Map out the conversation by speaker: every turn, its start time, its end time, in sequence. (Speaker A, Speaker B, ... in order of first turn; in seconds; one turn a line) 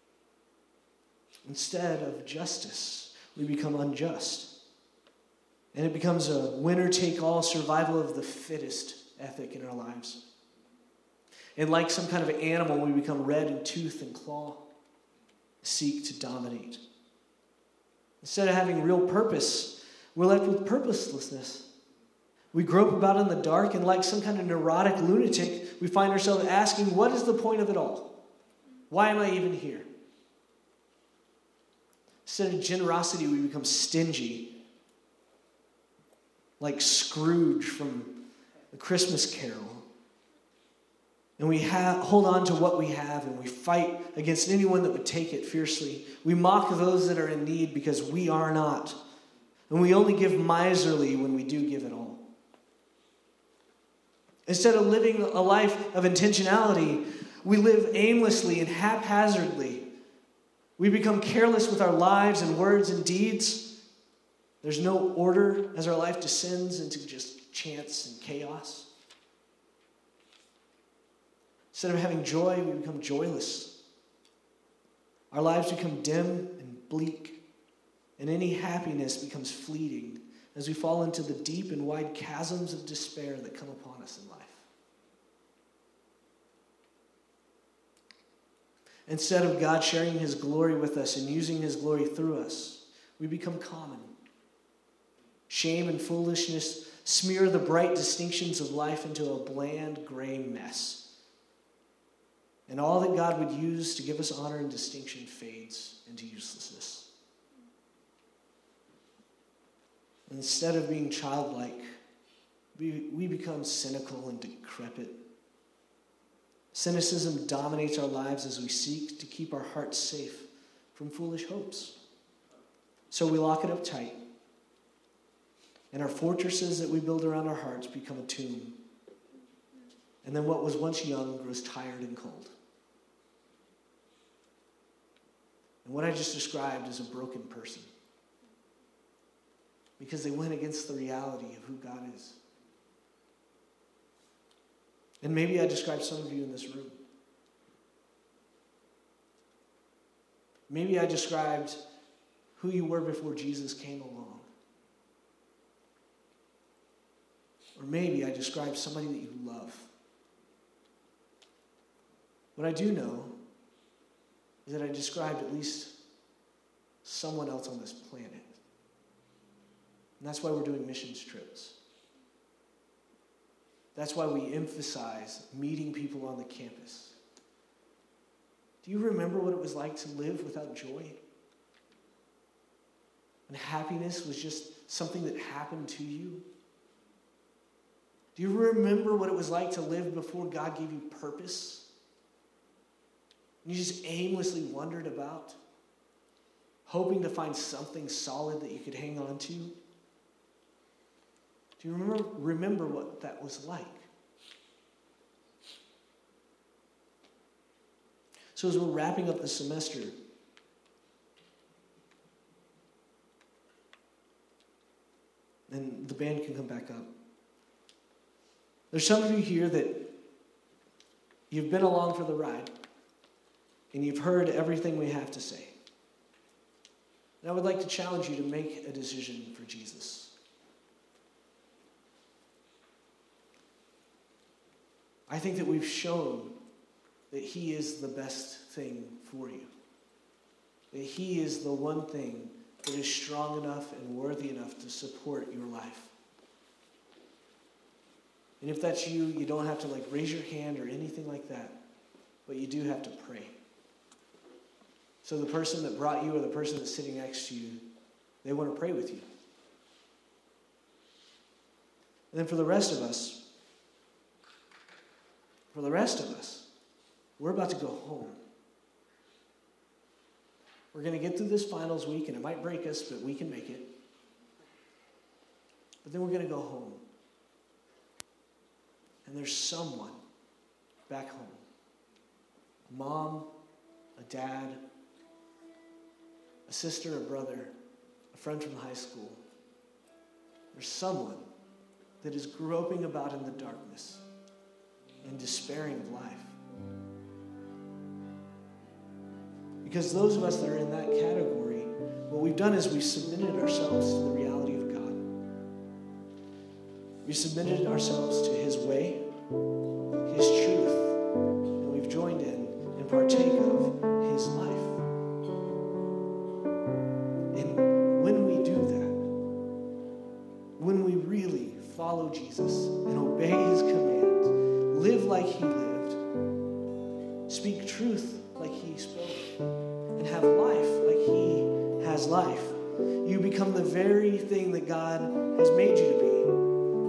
Speaker A: 1.4-4.5
Speaker A: 5.7-10.2
Speaker A: 11.6-14.6
Speaker A: 15.6-16.8
Speaker A: 18.2-21.7
Speaker A: 22.5-28.1
Speaker A: 28.9-29.9
Speaker A: 32.2-34.5
Speaker A: 36.6-38.1
Speaker A: 38.7-39.9
Speaker A: 41.4-49.0
Speaker A: 49.7-52.2
Speaker A: 54.5-59.9
Speaker A: 60.8-63.7
Speaker A: 64.6-68.9
Speaker A: 71.7-73.7
Speaker A: 75.3-77.4
Speaker A: 78.2-84.6
Speaker A: 89.1-94.1
Speaker A: 95.5-101.0
Speaker A: 102.7-107.1
Speaker A: 110.3-111.8
Speaker A: 112.7-115.2
Speaker A: 116.7-122.0
Speaker A: 123.1-124.2
Speaker A: 125.9-128.8
Speaker A: 130.2-132.5
Speaker A: 135.8-137.9
Speaker A: 140.0-142.4
Speaker A: 145.2-146.9
Speaker A: 150.7-151.8
Speaker A: 152.6-154.5
Speaker A: 157.8-159.9
Speaker A: 162.6-163.3
Speaker A: 164.7-165.9
Speaker A: 167.0-168.6
Speaker A: 170.2-171.7
Speaker A: 173.9-177.1
Speaker A: 178.8-181.2
Speaker A: 183.5-186.4
Speaker A: 188.3-191.8
Speaker A: 193.6-195.6
Speaker A: 196.8-199.7
Speaker A: 201.8-204.1
Speaker A: 208.5-210.1
Speaker A: 215.7-217.1
Speaker A: 218.9-220.0
Speaker A: 221.5-222.7
Speaker A: 223.9-225.7
Speaker A: 227.4-230.3
Speaker A: 235.3-236.6
Speaker A: 237.3-239.7
Speaker A: 240.9-246.1
Speaker A: 248.6-251.7
Speaker A: 252.4-253.5
Speaker A: 255.2-257.8
Speaker A: 258.4-259.2
Speaker A: 262.3-263.4
Speaker A: 265.7-266.6
Speaker A: 267.4-268.4
Speaker A: 270.9-273.9
Speaker A: 276.0-277.0
Speaker A: 279.2-280.2
Speaker A: 281.1-281.6
Speaker A: 282.9-283.5
Speaker A: 284.2-284.8
Speaker A: 286.7-287.7
Speaker A: 288.3-289.4
Speaker A: 290.7-291.4
Speaker A: 292.2-294.2
Speaker A: 295.2-296.6
Speaker A: 299.8-305.2
Speaker A: 307.2-309.2
Speaker A: 310.2-311.2
Speaker A: 311.8-315.0
Speaker A: 317.5-319.2
Speaker A: 320.8-326.2
Speaker A: 327.5-329.5
Speaker A: 330.1-336.5